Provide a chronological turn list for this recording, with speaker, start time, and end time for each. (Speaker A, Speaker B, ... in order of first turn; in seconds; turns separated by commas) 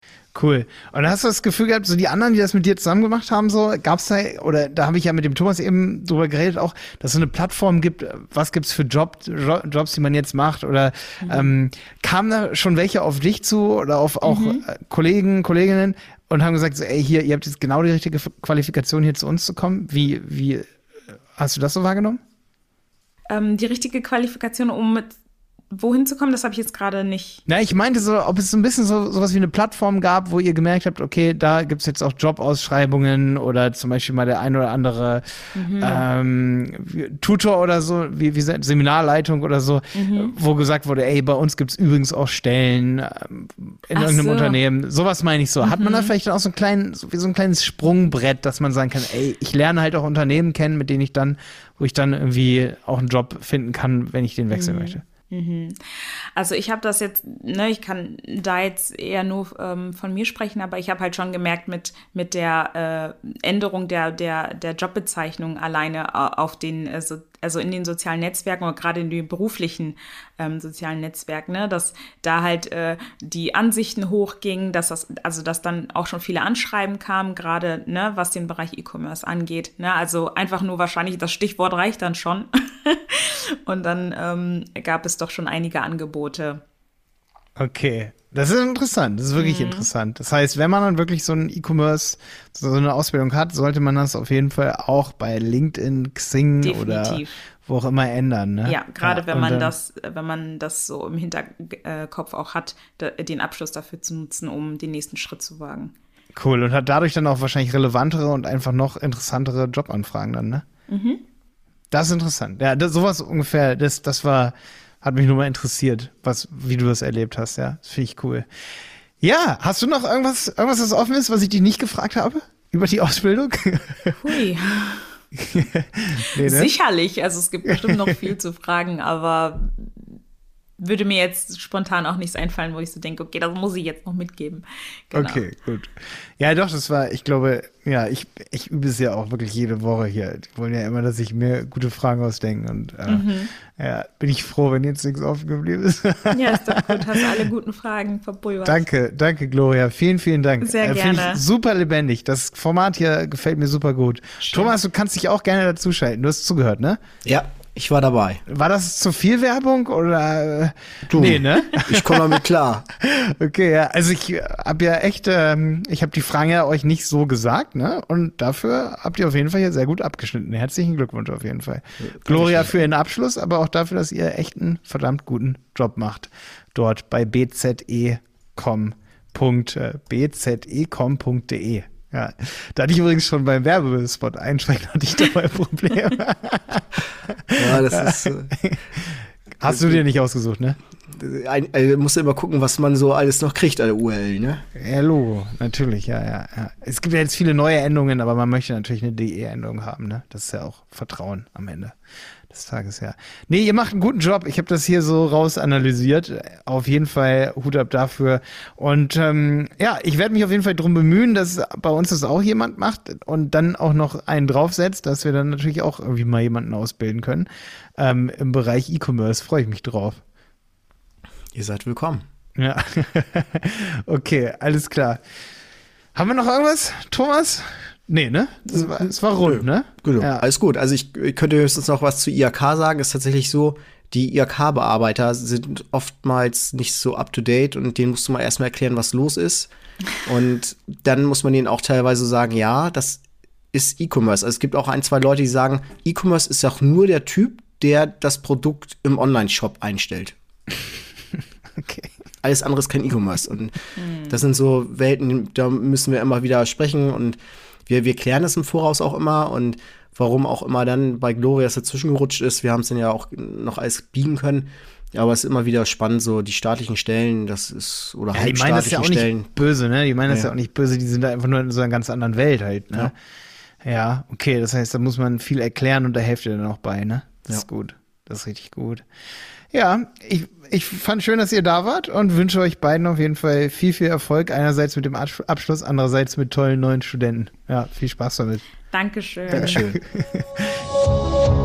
Speaker A: 0.3-20.7, Speaker B: 11.2-11.5, Speaker B: 14.2-14.7, Speaker A: 21.4-22.2, Speaker B: 23.3-25.1, Speaker B: 25.7-27.4, Speaker A: 27.5-35.2, Speaker B: 35.5-36.1, Speaker A: 35.8-55.0, Speaker B: 40.0-40.3, Speaker B: 43.9-44.6, Speaker B: 45.6-46.1, Speaker B: 54.5-86.6, Speaker A: 87.6-99.7, Speaker B: 89.4-89.9, Speaker B: 96.6-97.3, Speaker B: 98.7-105.9, Speaker A: 106.3-110.7, Speaker B: 110.9-111.2, Speaker A: 111.9-118.5, Speaker A: 119.2-124.2, Speaker B: 124.2-125.2, Speaker A: 125.3-126.7, Speaker B: 126.4-130.1, Speaker A: 127.7-128.3, Speaker B: 130.8-135.4, Speaker A: 135.1-147.5, Speaker B: 143.1-143.5, Speaker B: 146.3-148.8, Speaker A: 148.7-157.0, Speaker B: 150.6-151.4, Speaker B: 154.4-154.7, Speaker C: 157.2-158.4, Speaker A: 158.5-190.8, Speaker C: 161.1-162.8, Speaker C: 172.0-172.7, Speaker C: 187.6-188.5, Speaker C: 189.7-190.0, Speaker C: 191.1-194.6, Speaker A: 194.8-201.9, Speaker A: 202.5-220.2, Speaker C: 221.6-222.2, Speaker A: 222.6-225.2, Speaker A: 226.2-230.4, Speaker C: 228.7-239.7, Speaker C: 240.2-243.2, Speaker C: 243.7-250.3, Speaker A: 251.8-252.1, Speaker C: 252.4-269.5, Speaker B: 254.0-254.4, Speaker A: 268.3-273.1, Speaker A: 273.8-279.1, Speaker A: 279.7-288.6, Speaker B: 288.9-289.8, Speaker A: 289.5-290.8, Speaker C: 289.5-290.0